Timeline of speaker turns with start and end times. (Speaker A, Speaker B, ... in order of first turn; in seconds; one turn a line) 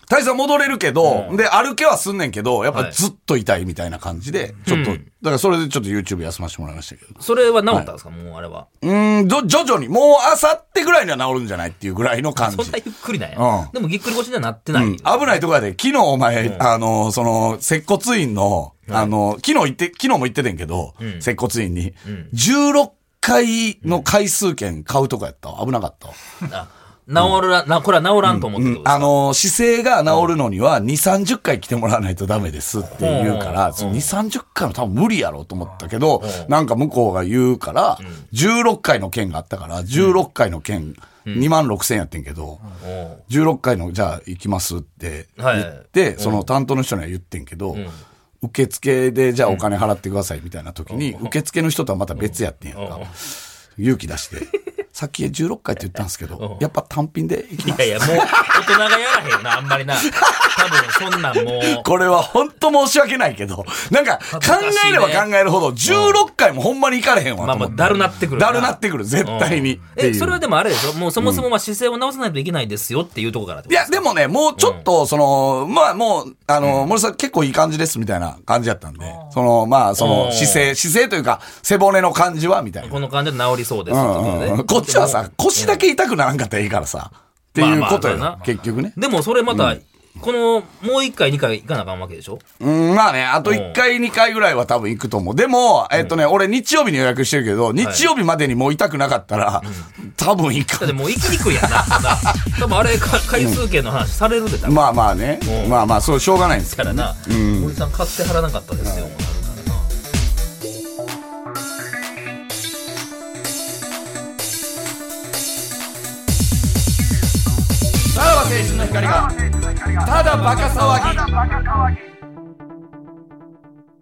Speaker A: 0.1-7.9
Speaker B: 1.0-1.4
Speaker B: 2.7-3.0
Speaker B: 4.6-5.0
Speaker B: 7.2-8.7
Speaker A: 8.8-12.8
Speaker B: 12.3-15.4
Speaker A: 13.3-13.7
Speaker A: 14.7-26.1
Speaker B: 16.4-16.7
Speaker B: 18.9-19.1
Speaker B: 21.0-21.3
Speaker B: 22.0-22.3
Speaker B: 26.4-29.1
Speaker A: 28.2-42.6
Speaker B: 32.9-34.1
Speaker B: 36.2-36.5
Speaker B: 38.0-38.2
Speaker B: 39.9-40.2
Speaker B: 41.2-41.5
Speaker B: 42.8-43.2
Speaker A: 43.3-47.8
Speaker B: 45.4-46.5
Speaker B: 47.7-48.0
Speaker A: 48.4-53.1
Speaker B: 50.9-51.3
Speaker B: 52.2-53.1
Speaker A: 53.8-58.8
Speaker B: 56.4-56.7
Speaker B: 57.6-61.9
Speaker A: 60.0-70.4
Speaker B: 64.3-65.3
Speaker B: 65.8-66.2
Speaker B: 67.4-74.0
Speaker A: 71.2-71.5
Speaker A: 73.7-83.0
Speaker B: 74.6-74.9
Speaker B: 76.6-76.9
Speaker B: 80.0-80.7
Speaker B: 82.8-85.8
Speaker A: 83.9-88.9
Speaker B: 87.5-88.4
Speaker B: 88.9-92.4
Speaker A: 89.5-89.8
Speaker A: 92.6-102.6
Speaker B: 93.4-93.8
Speaker B: 97.8-98.1
Speaker B: 99.6-99.9
Speaker B: 100.8-105.9
Speaker A: 103.3-103.6
Speaker A: 104.6-107.8
Speaker B: 106.7-109.9
Speaker A: 108.8-109.1
Speaker A: 118.1-119.3
Speaker A: 119.9-121.4